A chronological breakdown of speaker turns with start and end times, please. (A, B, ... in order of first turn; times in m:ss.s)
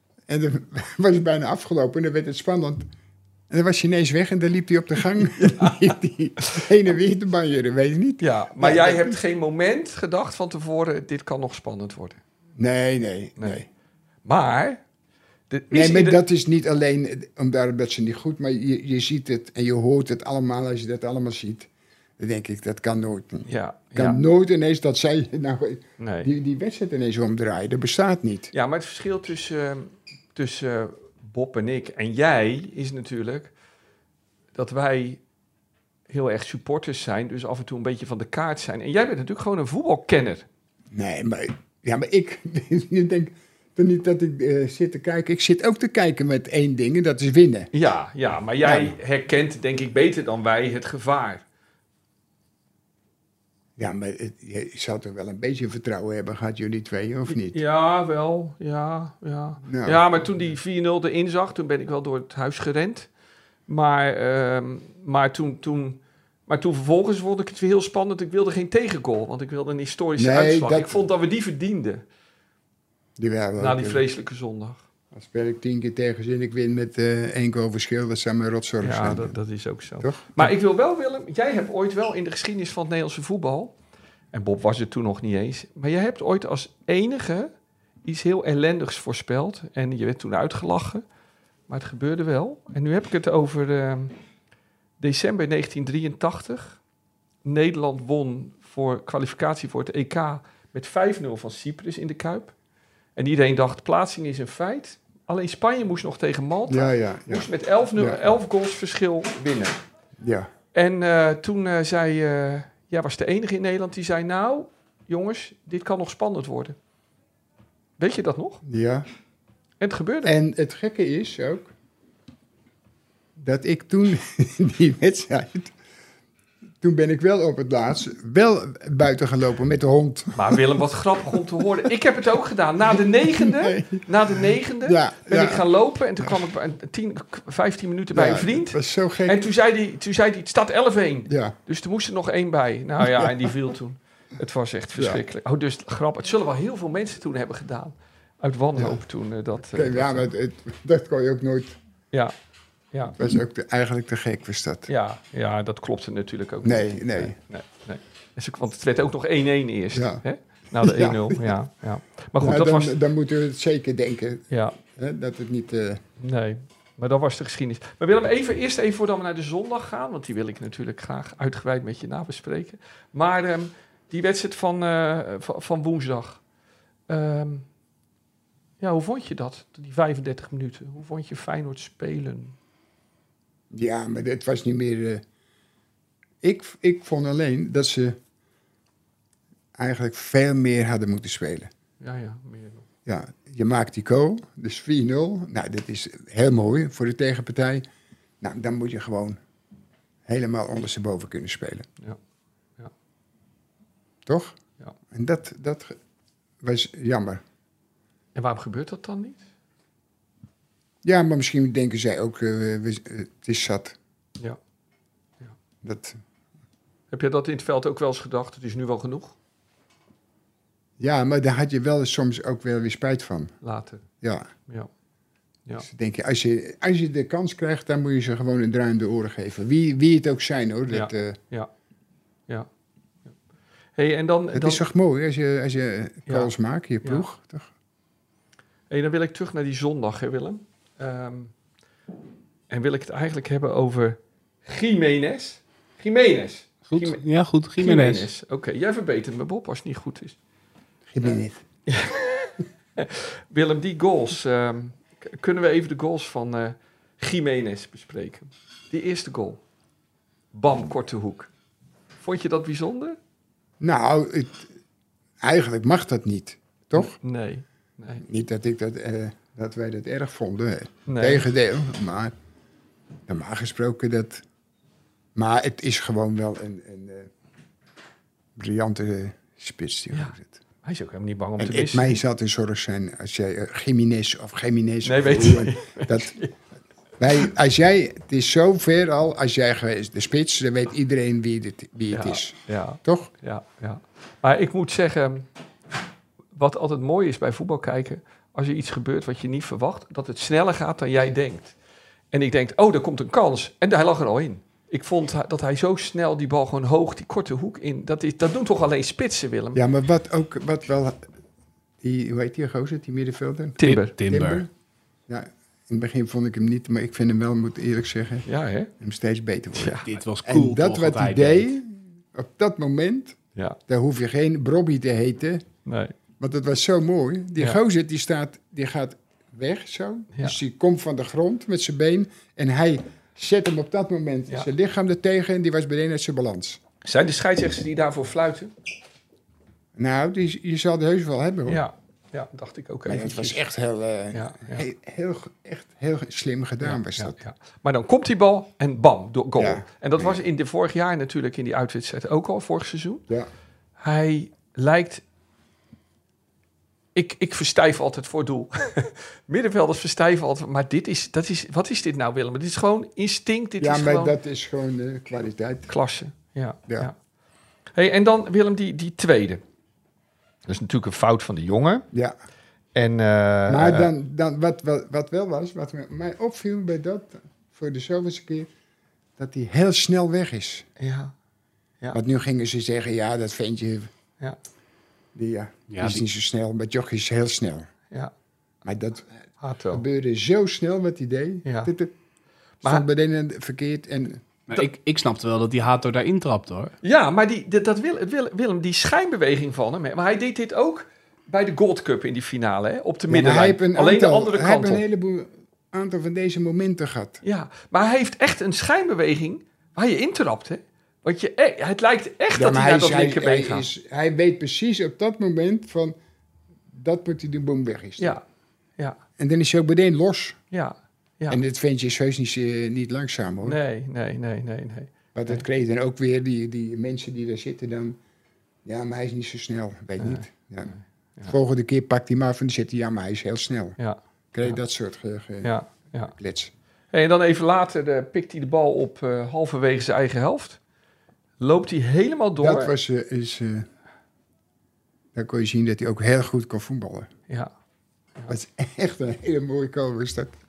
0:00.3-0:02.9 A
0:03.5-0:09.2 A
0:05.2-0:06.6 B
0:08.2-0:12.2 B
0:12.6-0:13.7 A
0:13.4-0:13.6 B
0:14.2-0:14.8 B
0:15.5-0:16.2 B
0:15.7-0:28.5 A
0:23.5-0:24.2 B
0:26.0-0:26.3 B
0:28.5-0:33.5 B
0:34.6-0:35.2 B
0:36.1-0:40.5 B
0:40.9-0:47.7 A
0:47.7-0:51.4 B
0:48.6-0:49.0 A
0:53.8-0:57.6 A
0:57.3-1:03.1 B
0:59.6-1:00.4 A
1:03.7-1:12.0 B
1:10.2-1:11.0 A
1:13.2-1:14.0 A
1:13.6-1:14.8 B
1:15.1-1:19.4 A
1:18.8-1:23.8 B
1:20.0-1:20.5 A
1:24.3-1:27.5 B
1:28.0-1:31.0 B
1:31.7-1:34.1 B
1:35.0-1:36.8 B
1:37.4-1:42.5 B
1:43.2-1:49.8 B
1:46.7-1:48.2 A
1:50.2-1:50.5 A
1:50.7-1:56.8 B
1:58.0-1:58.6 B
1:58.6-1:59.1 A
1:59.8-2:00.3 B
2:00.2-2:01.7 A
2:03.4-2:05.7 A
2:06.8-2:10.7 A
2:10.4-2:30.3 B
2:11.3-2:11.9 A
2:12.9-2:15.6 A
2:18.1-2:19.4 A
2:21.3-2:21.6 A
2:23.0-2:23.5 A
2:25.0-2:25.2 A
2:28.8-2:29.0 A
2:29.6-2:31.8 A
2:33.2-2:34.9 A
2:34.9-2:43.0 B
2:36.6-2:37.4 A
2:39.9-2:40.2 A
2:40.8-2:41.6 A
2:42.4-2:46.0 A
2:44.5-2:44.8 B
2:46.2-2:56.4 B
2:57.1-2:57.6 B
2:58.8-3:02.6 B
3:03.7-3:05.2 A
3:06.4-3:08.2 A
3:09.8-3:11.7 A
3:12.0-3:12.8 B
3:13.1-3:17.8 A
3:18.4-3:19.4 A
3:20.3-3:21.9 A
3:24.3-3:24.6 A
3:25.1-3:26.0 A
3:26.6-3:27.4 A
3:28.4-3:29.4 B
3:31.0-3:34.0 A
3:35.8-3:36.2 A
3:37.1-3:39.4 B
3:41.0-3:43.5 A
3:43.6-3:44.0 B
3:44.2-3:44.5 A
3:45.8-3:51.4 A
3:50.9-3:51.7 B
3:54.0-3:54.8 B
3:54.5-3:57.7 A
3:56.3-3:56.5 B
3:58.9-4:01.5 B
4:02.7-4:07.2 B
4:06.9-4:08.3 C
4:07.8-4:10.4 B
4:11.1-4:11.6 A
4:11.9-4:19.6 B
4:20.5-4:21.5 B
4:22.2-4:23.2 B
4:23.8-4:24.7 A
4:25.4-4:27.2 A
4:27.0-4:28.2 B
4:28.2-4:32.3 A
4:31.1-4:31.5 B
4:33.3-4:34.4 A
4:35.4-4:37.3 A
4:38.6-4:40.6 A
4:40.8-4:42.2 B
4:41.6-4:46.4 A
4:45.0-4:46.5 B
4:47.2-4:53.3 A
4:52.1-4:55.5 B
4:56.5-5:01.8 B
5:02.3-5:09.8 B
5:09.8-5:11.2 A
5:12.0-5:14.7 A
5:13.8-5:14.1 B
5:13.8-5:14.6 C
5:15.3-5:18.5 A
5:18.5-5:18.9 B
5:19.0-5:25.6 A
5:19.8-5:20.1 B
5:20.0-5:21.7 C
5:25.9-5:26.1 B
5:26.4-5:36.8 A
5:37.0-5:38.7 B
5:40.0-5:41.8 A
5:41.7-5:43.6 B
5:43.1-5:47.4 A
5:44.3-5:44.8 B
5:46.8-5:53.2 B
5:49.6-5:50.4 A
5:54.0-5:55.2 B
5:57.2-6:04.4 B
6:03.8-6:05.9 A
6:05.9-6:07.2 B
6:08.0-6:09.6 B
6:10.7-6:12.0 B
6:13.0-6:14.1 B
6:13.7-6:18.7 A
6:19.4-6:20.9 A
6:21.0-6:21.3 B
6:22.1-6:24.1 A
6:25.4-6:27.9 A
6:25.9-6:26.2 C
6:28.8-6:29.3 A
6:29.6-6:30.0 B
6:29.9-6:32.1 A
6:31.6-6:31.9 B
6:32.8-6:34.8 A
6:34.7-6:36.9 C
6:37.0-6:45.0 B
6:43.3-6:47.4 A
6:47.4-6:53.9 B
6:52.6-6:56.2 A
6:56.9-6:58.4 A
6:58.2-6:58.4 B
6:59.4-7:00.6 A
7:00.7-7:01.6 B
7:01.5-7:03.8 A
7:03.6-7:05.6 B
7:05.4-7:08.2 A
7:08.8-7:10.9 A
7:10.2-7:11.6 B
7:11.5-7:14.0 A
7:14.0-7:14.8 B
7:14.5-7:15.8 A
7:15.6-7:16.3 B
7:16.3-7:16.7 A
7:17.1-7:20.8 B
7:21.6-7:22.9 B
7:22.6-7:23.9 A
7:25.3-7:27.3 A
7:28.5-7:30.6 A